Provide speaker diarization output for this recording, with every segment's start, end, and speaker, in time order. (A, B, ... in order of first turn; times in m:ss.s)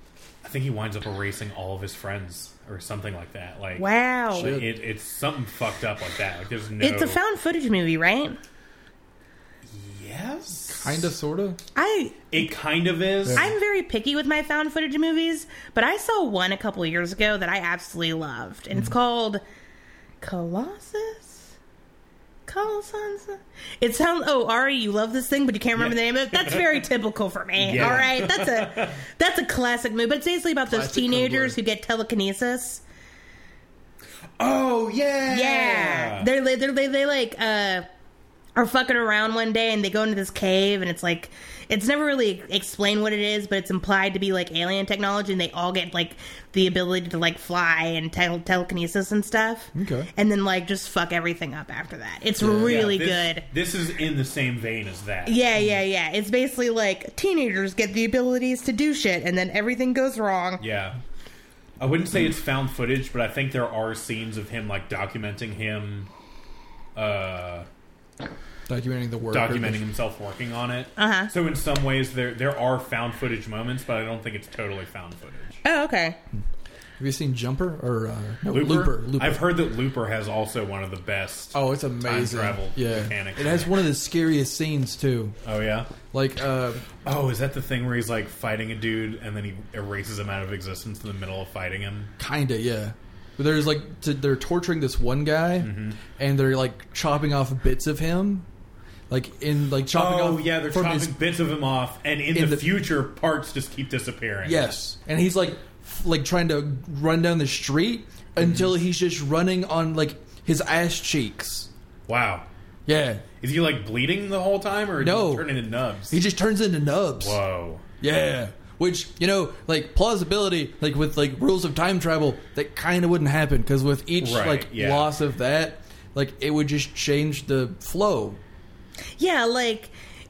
0:00.4-0:07.2 A
0:03.8-0:04.5 B
0:04.4-0:04.7 C
0:06.8-0:08.4 B
0:09.7-0:11.1 A
0:10.7-0:11.6 C
0:11.7-0:12.3 B
0:12.3-0:13.5 A
0:13.3-0:19.4 B
0:20.2-0:21.5 B
0:22.5-0:32.8 B
0:25.8-0:26.7 A
0:27.6-0:29.0 A
0:27.8-0:28.0 C
0:30.7-0:31.6 C
0:34.4-0:36.3 A
0:35.3-0:37.8 B
0:38.6-0:53.4 B
0:49.7-0:50.1 C
0:52.4-0:52.9 C
0:52.6-0:55.4 A
0:55.2-1:00.6 B
1:00.6-1:01.0 A
1:01.8-1:06.1 A
1:07.0-1:07.7 A
1:08.7-1:09.8 C
1:09.3-1:15.6 A
1:11.0-1:11.3 B
1:15.6-1:16.2 B
1:17.0-1:19.4 C
1:18.5-1:23.7 A
1:21.5-1:25.4 C
1:25.4-1:25.9 A
1:26.1-1:26.9 C
1:27.0-1:32.1 A
1:32.2-1:38.5 C
1:35.6-1:36.0 A
1:39.1-1:41.1 C
1:39.9-1:44.7 A
1:42.3-1:42.7 C
1:44.4-1:51.7 C
1:48.4-1:48.7 A
1:52.1-1:52.4 A
1:52.8-1:53.2 C
1:53.4-1:56.2 A
1:55.0-1:55.5 C
1:56.1-1:57.4 C
1:57.2-1:57.8 A
1:58.0-2:08.4 C
2:04.2-2:05.1 A
2:09.2-2:09.9 B